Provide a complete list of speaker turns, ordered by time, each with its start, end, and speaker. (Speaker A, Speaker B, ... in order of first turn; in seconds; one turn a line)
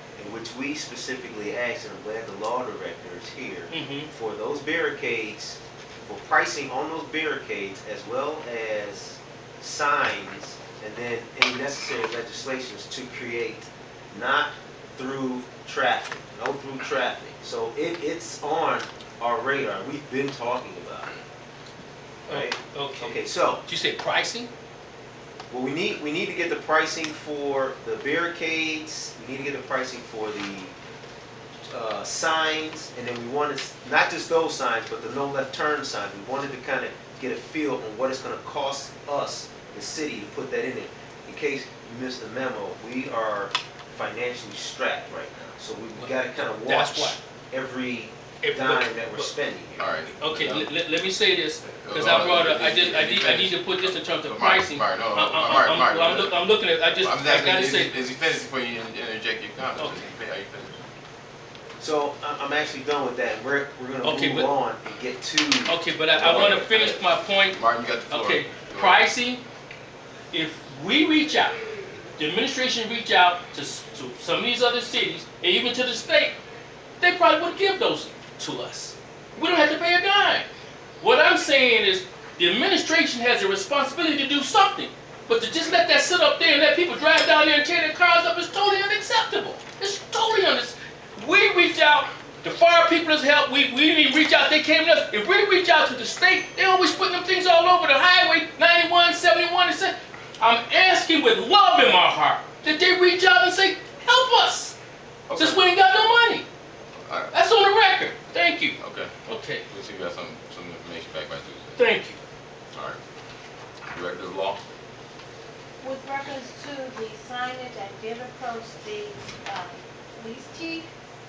Speaker A: 0.2-21.1
Speaker B: 3.7-4.1
Speaker B: 22.3-24.5
Speaker A: 22.3-23.6
Speaker A: 25.5-30.7
Speaker A: 31.7-50.0
Speaker B: 46.6-47.2
Speaker B: 48.4-49.3
Speaker C: 49.8-50.7
Speaker B: 50.2-57.9
Speaker C: 51.6-60.8
Speaker A: 61.8-66.6
Speaker B: 64.0-64.5
Speaker B: 65.7-67.6
Speaker C: 66.2-69.0
Speaker B: 68.1-69.4
Speaker B: 70.3-71.6
Speaker B: 72.2-76.4
Speaker B: 77.0-80.5
Speaker B: 81.0-104.8
Speaker C: 105.3-105.8
Speaker B: 105.4-106.5
Speaker C: 107.0-107.3
Speaker B: 107.3-109.7
Speaker C: 108.8-109.1
Speaker C: 109.7-111.8
Speaker B: 111.8-112.2
Speaker C: 112.7-113.0
Speaker C: 113.9-114.6
Speaker D: 115.8-120.9